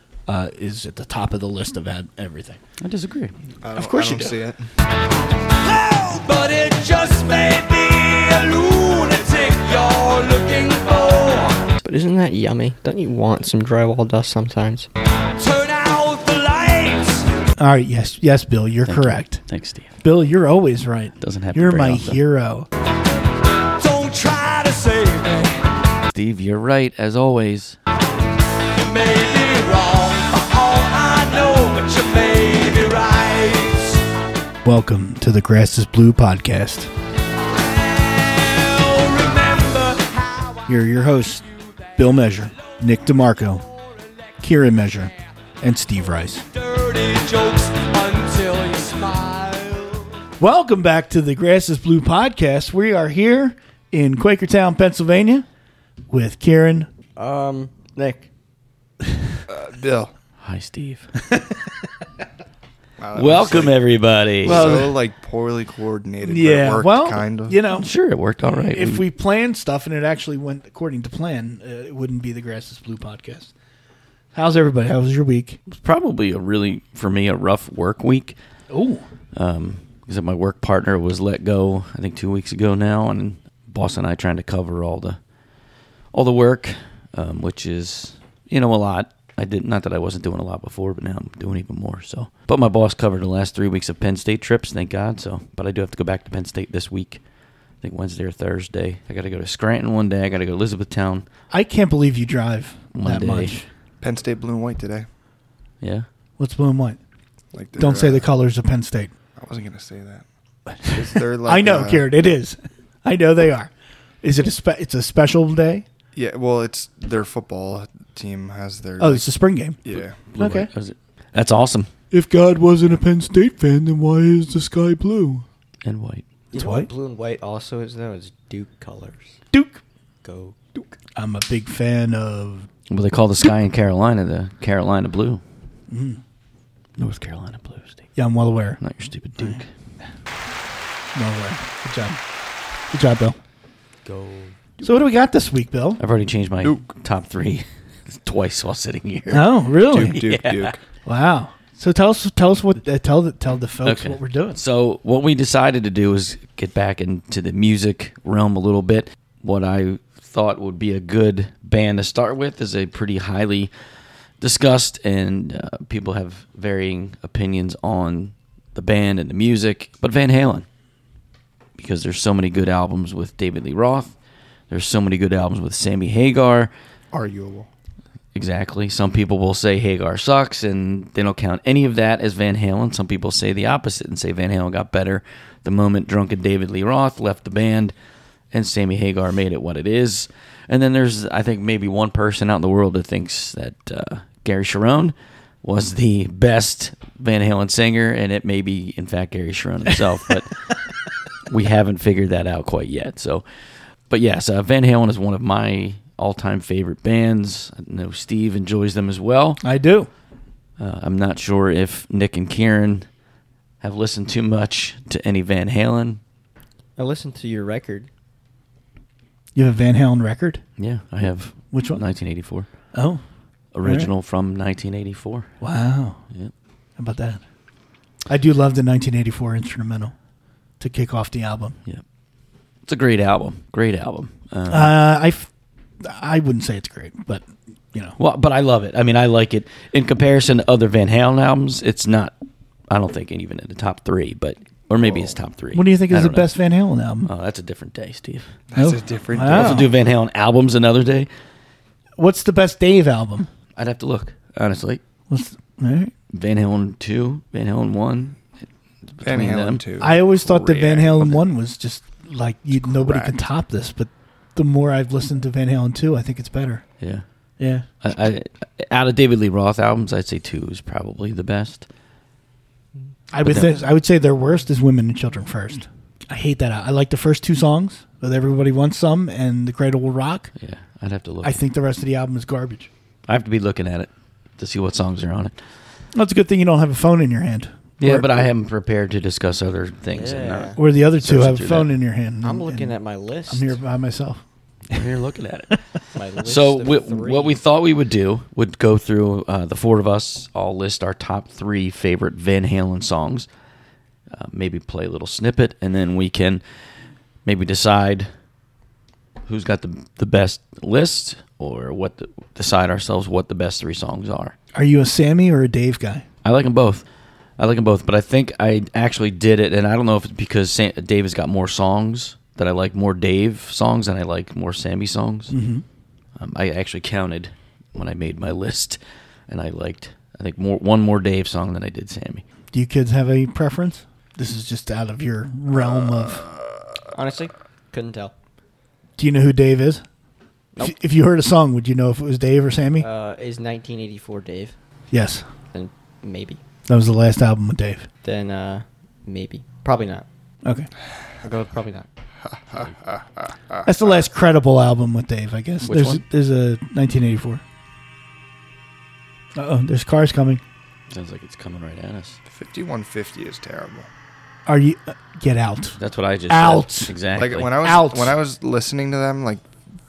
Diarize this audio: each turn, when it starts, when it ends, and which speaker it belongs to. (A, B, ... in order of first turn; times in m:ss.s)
0:00.2-0:02.6 A
0:02.8-0:03.3 B
0:03.6-0:04.7 C
0:03.7-0:04.4 A
0:05.6-0:11.7 D
0:11.8-0:14.9 E
0:15.3-0:17.2 D
0:17.6-0:19.4 A
0:18.8-0:20.0 B
0:20.0-0:22.7 A
0:21.2-0:22.2 B
0:23.8-0:25.6 D
0:26.1-0:27.8 B
0:28.7-0:34.0 D
0:34.6-0:36.9 A
0:37.5-0:40.7 D
0:40.7-0:41.4 A
0:42.0-0:43.6 A
0:44.4-0:46.4 A
0:46.5-0:50.2 D
0:50.4-0:55.4 A
0:56.1-0:56.9 A
0:57.2-0:58.3 E
0:59.5-1:00.1 C
1:00.4-1:01.1 B
1:01.3-1:01.7 A
1:03.0-1:03.8 C
1:03.1-1:04.7 B
1:04.4-1:07.6 C
1:04.4-1:05.0 A
1:06.2-1:07.9 A
1:07.7-1:09.0 B
1:08.4-1:13.5 A
1:14.3-1:15.6 A
1:15.7-1:18.4 B
1:18.7-1:19.0 A
1:19.3-1:25.2 B
1:26.1-1:37.2 B
1:37.8-1:41.2 B
1:41.5-1:43.7 A
1:42.9-1:43.6 B
1:44.0-1:45.1 C
1:45.8-1:46.0 B
1:46.4-1:47.0 A
1:47.5-1:48.3 C
1:47.8-1:49.1 A
1:49.4-1:50.2 C
1:50.8-1:53.7 A
1:50.8-1:52.1 C
1:54.2-1:55.8 A
1:56.1-1:59.3 C
1:59.0-1:59.8 A
1:59.8-2:00.2 C
1:59.9-2:01.9 B
2:00.3-2:00.7 A
2:02.1-2:05.4 A
2:05.8-2:06.2 B
2:06.5-2:09.4 E
2:06.5-2:06.9 A
2:09.5-2:09.8 A
2:10.2-2:11.0 E
2:11.2-2:12.7 A
2:12.9-2:15.4 B
2:15.9-2:16.2 A
2:17.0-2:18.0 B
2:18.2-2:18.8 A
2:18.8-2:19.7 B
2:21.1-2:22.2 A
2:22.9-2:23.4 A
2:24.0-2:24.7 E
2:24.8-2:26.0 A
2:26.0-2:30.7 B
2:29.3-2:30.2 A
2:29.8-2:30.8 C
2:31.0-2:34.6 A
2:33.8-2:43.7 B
2:44.4-2:50.6 B
2:51.8-2:54.1 B
2:54.7-2:56.7 B
2:57.1-2:57.7 C
2:58.3-3:07.9 B
3:08.5-3:20.6 B
3:21.4-3:29.6 B
3:29.6-3:30.1 A
3:30.8-3:33.1 B
3:33.8-3:36.2 B
3:37.0-3:38.1 E
3:39.5-3:40.6 A
3:40.8-3:42.7 B
3:41.7-3:42.0 A
3:42.9-3:43.2 A
3:43.7-3:45.5 B
3:43.8-3:44.1 A
3:45.6-3:46.2 A
3:47.0-3:47.4 A
3:48.3-3:50.1 A
3:50.8-3:51.8 A
3:52.8-3:55.0 B
3:54.7-3:58.2 A
3:58.2-4:02.3 B
4:02.9-4:06.5 B
4:05.7-4:07.3 A
4:07.2-4:08.5 B
4:08.7-4:09.9 C
4:08.8-4:09.9 A
4:09.5-4:11.3 B
4:12.2-4:13.5 A
4:13.8-4:15.0 B
4:15.3-4:16.1 A
4:16.3-4:18.4 B
4:19.1-4:19.8 B
4:19.2-4:21.4 C
4:20.0-4:26.8 A
4:22.8-4:23.3 C
4:27.6-4:27.8 A
4:28.0-4:31.9 B
4:33.3-4:40.5 A
4:33.4-4:33.8 B
4:40.6-4:41.5 B
4:41.4-4:42.9 A
4:43.3-4:45.5 B
4:46.1-4:48.3 A
4:48.0-4:51.9 B
4:50.1-4:50.8 E
4:50.8-4:53.0 A
4:52.4-4:53.8 E
4:53.5-4:55.0 A
4:54.9-4:55.8 B
4:56.1-4:57.6 E
4:56.4-5:03.5 B
5:04.3-5:06.6 B
5:07.4-5:08.3 B
5:09.4-5:14.6 B
5:14.7-5:16.2 A
5:16.4-5:17.0 B
5:17.6-5:25.5 B
5:25.5-5:25.8 A
5:26.4-5:32.4 B
5:32.7-5:36.4 A
5:35.9-5:36.7 C
5:37.1-5:38.3 E
5:39.2-5:40.0 A
5:40.8-5:43.1 A
5:43.0-5:44.7 E
5:45.1-5:45.4 A
5:45.7-5:46.6 E
5:46.9-5:48.1 A
5:48.2-5:50.2 E
5:51.4-5:52.1 E
5:52.4-5:54.2 C
5:53.8-5:57.6 A
5:55.8-5:56.2 B
5:59.6-6:00.6 A
6:01.1-6:02.4 B
6:02.5-6:04.1 C
6:04.6-6:06.0 A
6:06.0-6:07.8 B
6:06.5-6:07.1 A
6:07.3-6:09.6 C
6:07.8-6:08.4 A